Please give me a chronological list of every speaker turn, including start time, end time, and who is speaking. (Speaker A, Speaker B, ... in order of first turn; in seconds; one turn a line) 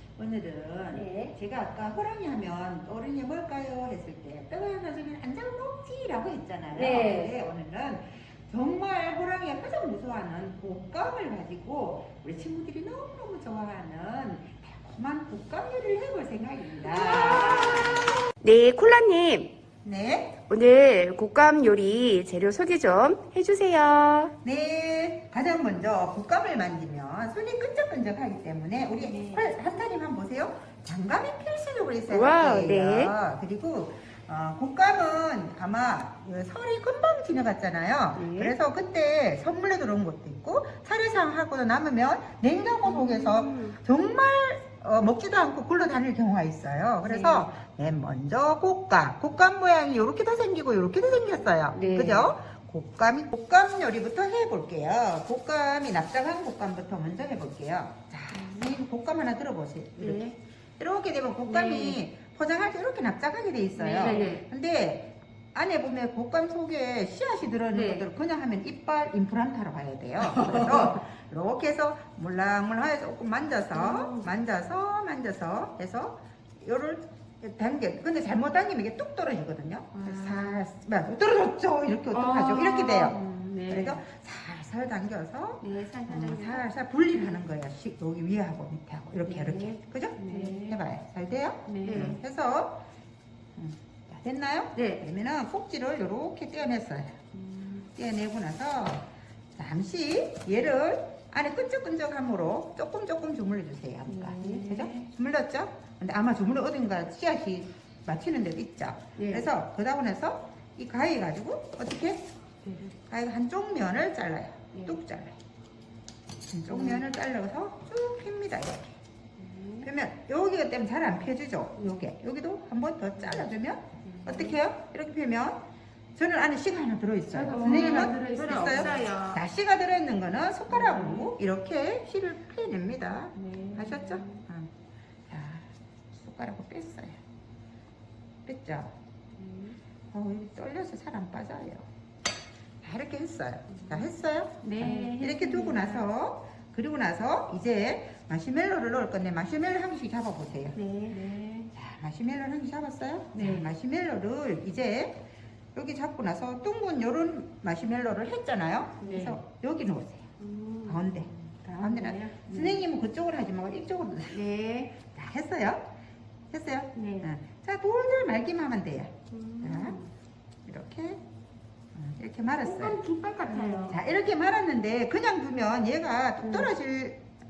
Speaker A: 0.2-18.1
Speaker B: 0.9-1.3
Speaker B: 6.8-7.4
Speaker B: 16.9-19.5
Speaker A: 19.8-20.4
Speaker B: 20.4-24.3
Speaker A: 24.4-92.8
Speaker B: 32.1-33.1
Speaker B: 38.1-38.5
Speaker B: 42.9-43.8
Speaker B: 47.0-47.5
Speaker B: 51.7-52.3
Speaker B: 58.3-58.7
Speaker B: 60.0-60.3
Speaker B: 61.5-62.0
Speaker B: 63.8-64.4
Speaker B: 67.7-68.1
Speaker B: 70.5-70.9
Speaker B: 73.7-74.3
Speaker B: 79.9-80.5
Speaker B: 82.1-83.1
Speaker C: 83.1-84.0
Speaker B: 85.6-86.6
Speaker B: 89.2-89.8
Speaker C: 90.2-90.8
Speaker C: 91.7-92.2
Speaker B: 91.9-92.2
Speaker A: 93.6-97.2
Speaker B: 94.8-95.0
Speaker B: 97.5-97.8
Speaker A: 97.9-112.3
Speaker B: 104.1-104.9
Speaker B: 109.2-109.5
Speaker A: 113.1-115.4
Speaker A: 116.5-119.0
Speaker B: 116.7-117.0
Speaker B: 119.4-119.9
Speaker A: 119.8-125.6
Speaker B: 124.2-124.6
Speaker A: 126.2-134.7
Speaker C: 127.3-129.1
Speaker B: 127.5-129.4
Speaker C: 130.7-131.3
Speaker C: 133.4-134.3
Speaker A: 135.3-137.2
Speaker A: 138.4-138.9
Speaker C: 139.4-139.8
Speaker A: 140.1-141.9
Speaker A: 142.8-150.8
Speaker C: 144.6-146.1
Speaker B: 150.7-151.2
Speaker C: 151.1-151.7
Speaker A: 151.7-155.2
Speaker C: 153.3-153.7
Speaker A: 155.8-160.3
Speaker C: 159.0-159.4
Speaker B: 160.4-161.0
Speaker A: 160.9-164.4
Speaker C: 161.1-162.7
Speaker B: 164.3-164.9
Speaker A: 165.0-165.8
Speaker A: 166.5-170.0
Speaker C: 167.0-167.3
Speaker B: 169.3-170.1
Speaker A: 170.7-171.2
Speaker A: 171.9-173.0
Speaker B: 172.6-174.0
Speaker A: 173.5-177.2
Speaker B: 176.4-176.7